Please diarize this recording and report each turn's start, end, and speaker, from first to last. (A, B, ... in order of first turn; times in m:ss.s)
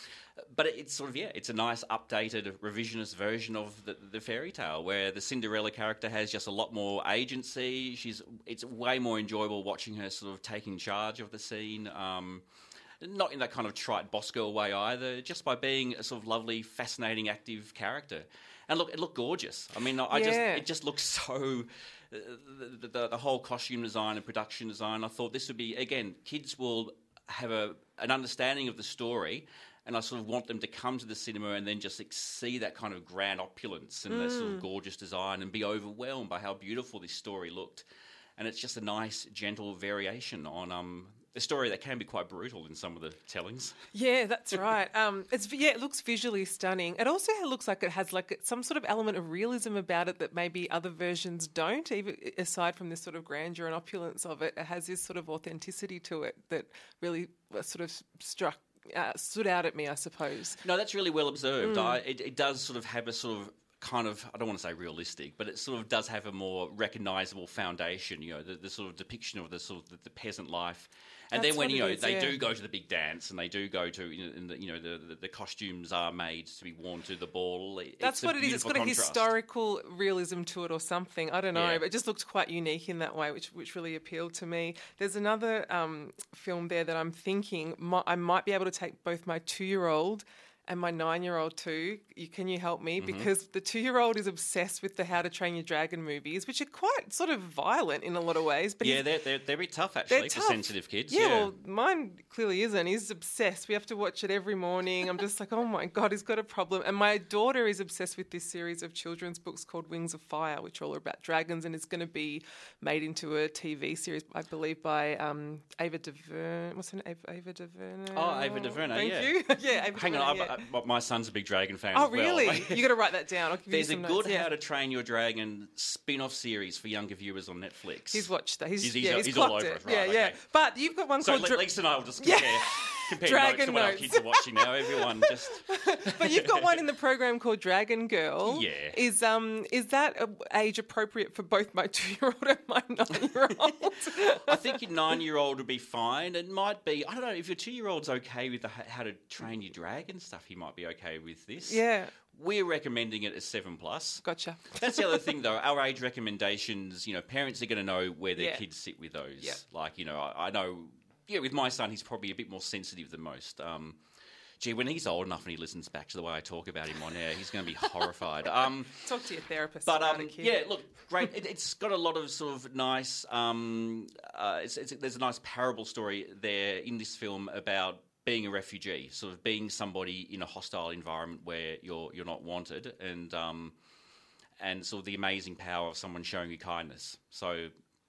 0:00.4-0:12.4 A
0:13.0-0:37.8 A
0:20.1-0:20.6 B
0:34.1-0:34.6 B
0:38.4-0:43.8 A
0:43.9-1:00.6 B
1:00.6-1:19.3 A
1:01.6-1:02.0 B
1:11.3-1:12.4 B
1:18.0-1:39.1 B
1:21.5-1:21.8 A
1:33.0-1:33.3 A
1:38.8-1:41.5 A
1:40.1-2:00.6 B
1:58.1-1:59.4 A
1:59.9-2:02.9 A
2:01.9-2:04.5 B
2:03.7-2:10.4 A
2:08.1-2:24.8 B
2:11.2-2:16.8 A
2:18.4-2:19.0 A
2:23.7-2:34.2 A
2:31.7-2:32.1 B
2:34.2-2:35.3 B
2:34.7-2:44.0 A
2:38.4-2:38.6 B
2:44.6-2:49.1 A
2:49.0-2:50.6 B
2:49.8-3:03.8 A
3:04.6-3:07.7 A